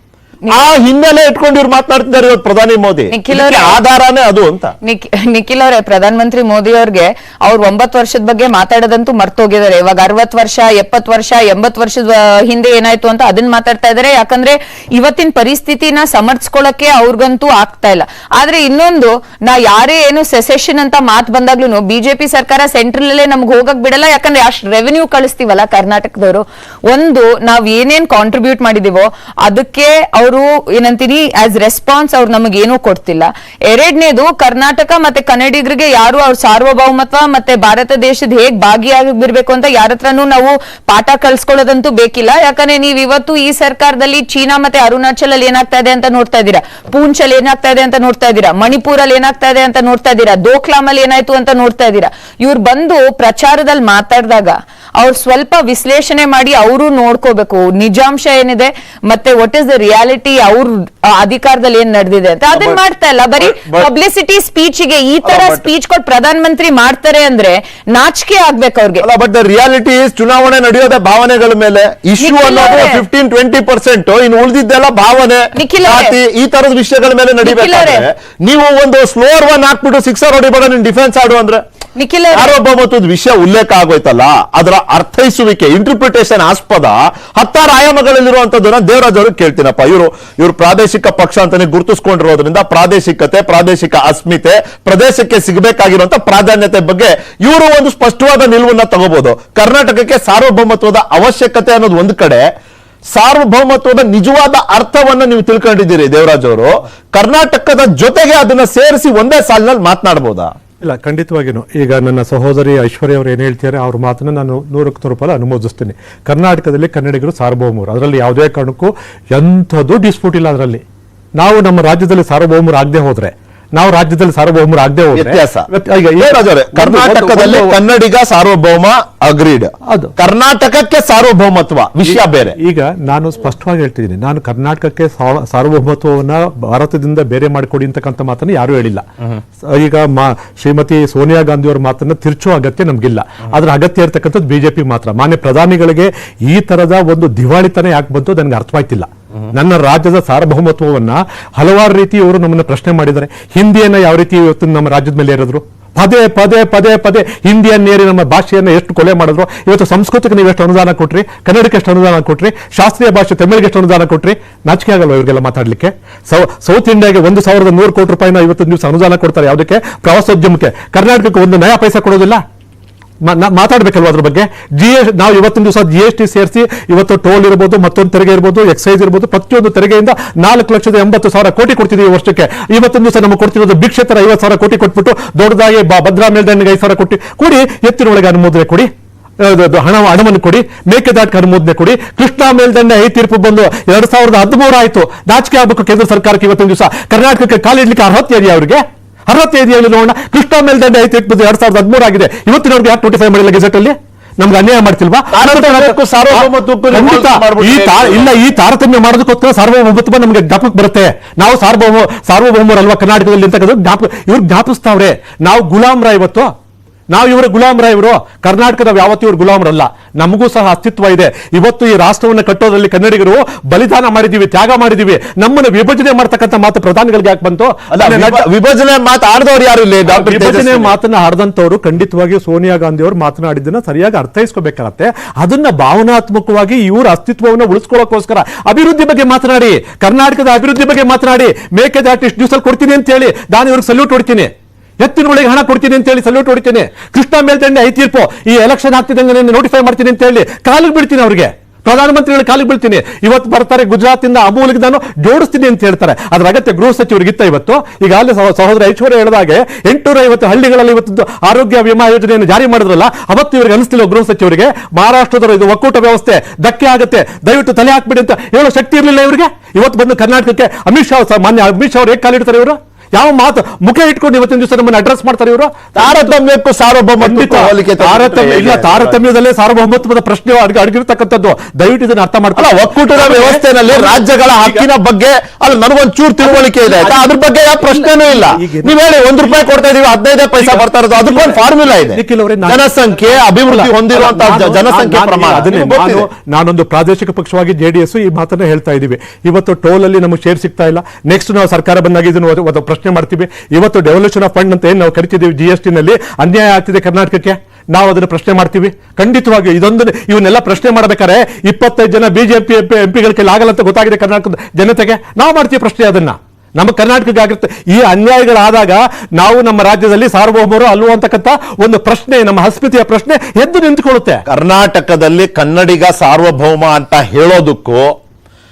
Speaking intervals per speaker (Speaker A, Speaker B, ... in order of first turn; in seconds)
Speaker A: 0.5-4.7, 62.5-62.8, 63.4-63.9, 65.2-65.7, 69.0-81.6, 82.3-102.5, 103.1-110.5, 125.1-125.7, 126.2-132.6, 205.3-208.4, 227.9-230.9, 275.9-279.1, 282.6-296.3, 324.5-328.1
Speaker B: 3.1-3.8, 4.8-69.0, 72.2-73.0, 75.5-76.2, 77.4-78.0, 82.0-82.5
Speaker C: 110.8-120.8, 121.4-127.8, 129.9-130.1, 132.0-139.0, 139.6-172.4, 173.2-216.5, 217.1-228.4, 230.1-276.3, 277.2-284.9, 286.5-287.2, 287.8-288.9, 290.6-324.4